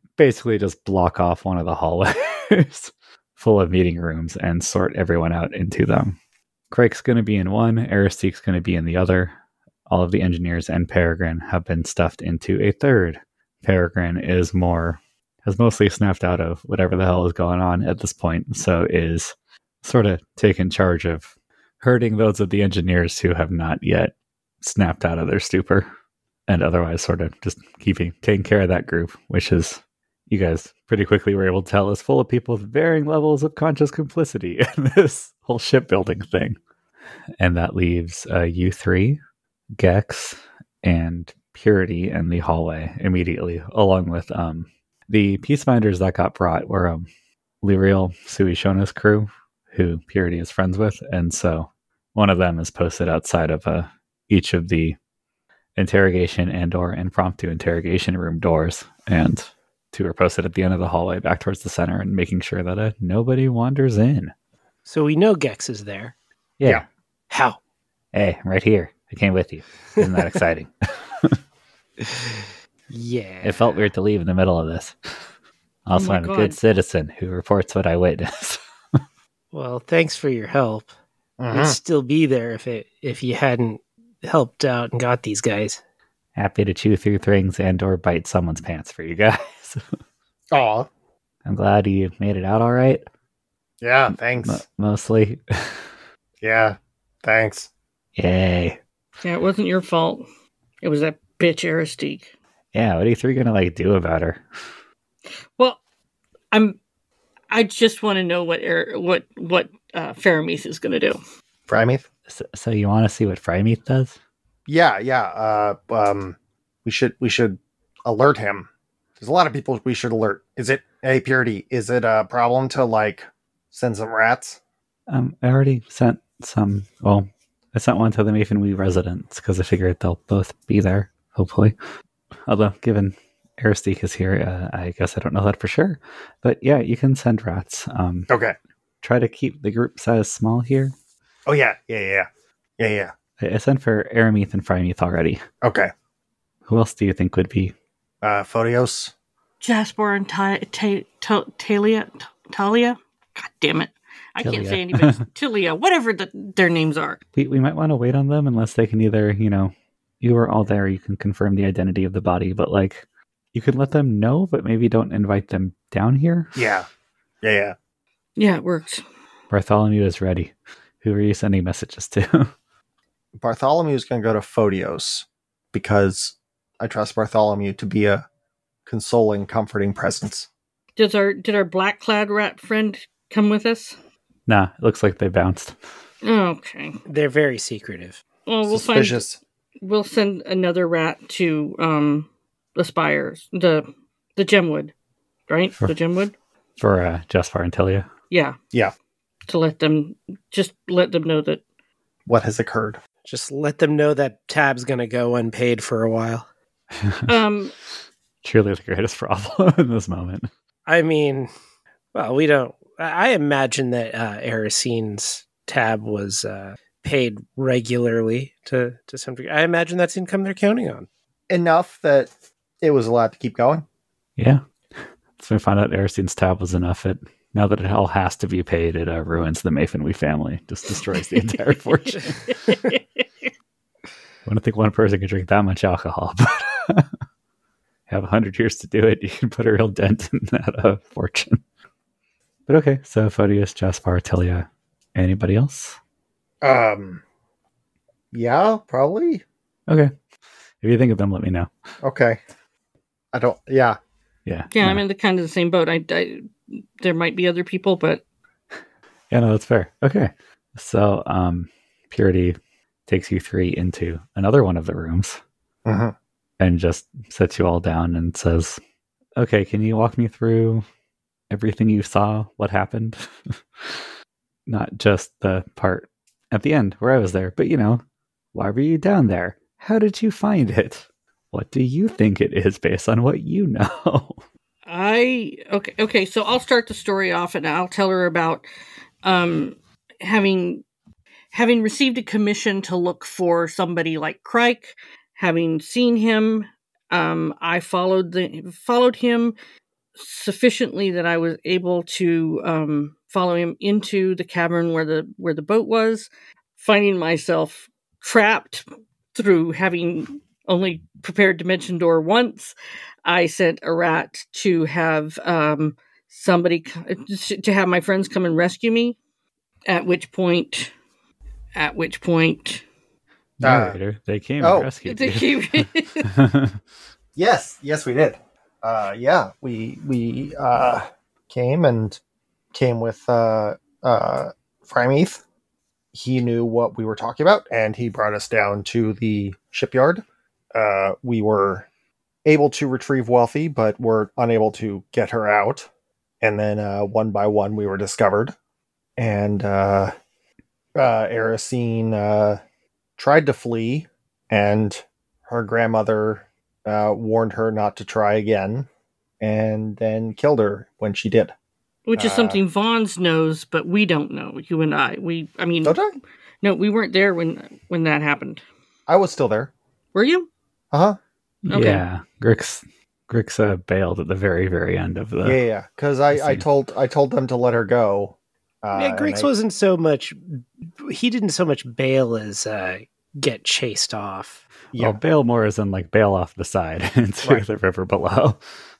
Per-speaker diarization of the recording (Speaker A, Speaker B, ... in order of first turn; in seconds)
Speaker A: 0.2-6.2, 6.7-9.3, 9.9-25.9, 26.5-36.6, 37.4-39.2, 39.8-47.1, 47.6-55.0, 55.8-64.3, 66.6-66.8, 68.1-71.4, 73.4-75.2, 75.9-78.6, 86.4-89.8, 91.5-93.0, 94.1-95.9, 98.2-98.8, 102.7-104.5, 112.3-114.2, 125.1-131.8, 132.5-138.3, 139.0-140.9, 143.4-145.4, 146.7-147.7, 154.4-155.2, 157.4-166.6, 169.5-172.5, 184.5-185.8, 196.8-198.1, 207.0-207.3, 208.4-210.5, 224.4-224.6, 225.4-232.8, 234.5-237.1, 238.1-241.6, 242.7-246.0, 250.8-251.7, 254.5-255.0, 259.3-265.4, 266.6-268.8, 269.4-270.9, 271.5-274.1, 274.7-278.0, 278.5-284.4, 323.6-326.8, 371.6-375.6, 376.3-376.6, 385.0-388.6
Speaker B: 64.8-66.1, 67.3-67.6, 72.9-73.8, 79.5-80.9, 81.5-85.8, 187.1-188.2, 203.2-206.5, 210.9-211.5, 212.1-221.1, 378.9-384.6
Speaker C: 75.9-76.6, 99.2-100.2, 100.8-102.3, 106.5-106.8, 107.5-111.2, 149.6-157.2, 168.4-169.0, 181.0-184.0, 186.2-187.0, 188.5-189.2, 189.8-194.9, 195.5-196.3, 198.3-198.6, 199.5-201.6, 207.3-207.7, 254.7-258.2, 284.9-288.7, 289.2-290.8, 291.5-299.6, 300.2-319.2, 319.9-320.9, 321.8-322.8, 325.1-326.3, 362.1-366.0, 366.6-368.6, 370.1-370.5, 371.7-372.0
Speaker D: 81.4-81.8, 90.5-90.9, 93.8-94.6, 96.4-97.7, 111.7-112.1, 114.7-118.7, 119.2-124.6, 138.3-138.6, 141.5-142.3, 142.8-143.1, 145.6-145.9, 148.2-149.1, 166.6-166.9, 167.4-167.8, 173.4-178.3, 178.9-180.5, 188.7-189.4, 202.3-203.0, 221.5-223.9, 246.6-247.2, 248.3-249.4, 252.0-252.4, 253.3-254.0, 265.9-266.1, 323.6-324.0, 324.6-324.9, 327.4-332.2, 332.7-335.4, 336.1-341.9, 342.4-345.9, 346.4-348.6, 349.2-350.1, 351.0-352.6, 353.2-358.9, 359.4-361.5, 362.2-362.6, 365.8-366.1, 369.1-369.7, 370.9-371.2, 375.4-379.5, 384.9-385.2